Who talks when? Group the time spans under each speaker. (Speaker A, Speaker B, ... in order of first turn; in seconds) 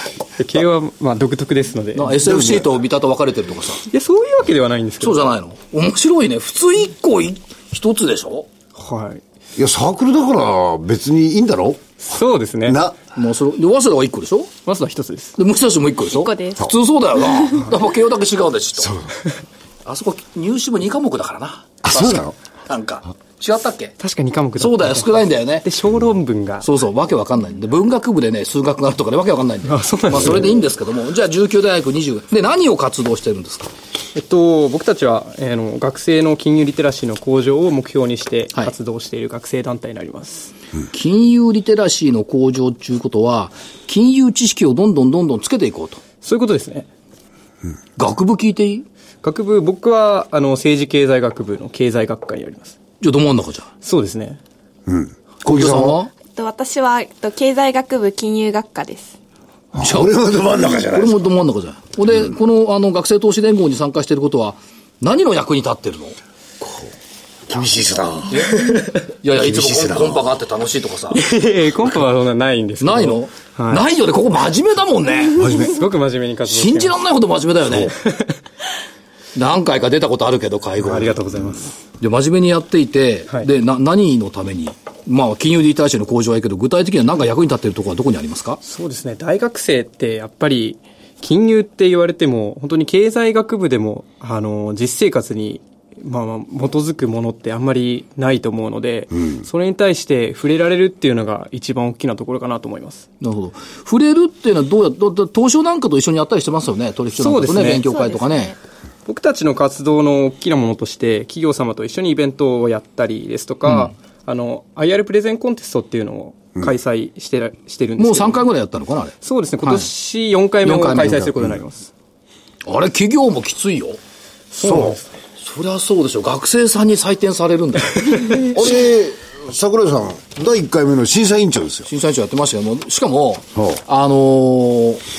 Speaker A: 0.4-2.2, 3.9-5.3, 8.8-9.2, 12.0-12.8, 14.7-15.4, 24.0-26.6, 29.6-30.6, 34.1-40.5, 46.2-46.9, 49.2-52.8, 53.8-54.4, 71.1-73.8, 75.4-77.0, 78.0-78.3, 80.8-81.8, 88.6-103.1, 107.2-107.8, 109.1-118.4, 119.2-121.9, 124.5-125.1
Speaker B: 1.9-3.9, 5.0-8.5, 13.1-14.5, 15.4-18.9, 19.9-23.9, 24.6-25.6, 26.6-33.7, 40.9-46.0, 48.0-48.9, 53.0-53.7, 55.5-56.1, 59.8-60.1, 60.9-66.2, 68.3-71.2, 72.8-75.5, 76.5-78.0, 79.3-81.2, 82.0-88.6, 103.2-108.5, 113.7-113.9, 118.0-119.9, 120.6-121.2, 122.6-124.0, 125.4-128.6, 131.9-135.0
Speaker C: 2.3-2.6, 9.6-12.0, 12.6-13.0, 18.8-19.1, 21.8-22.4, 54.9-56.0, 59.7-61.3, 66.6-66.9, 67.5-68.8, 69.3-70.2, 75.4-75.8, 121.1-121.5, 124.6-125.0, 128.3-131.9
Speaker D: 16.1-16.8, 56.3-59.1, 107.8-108.6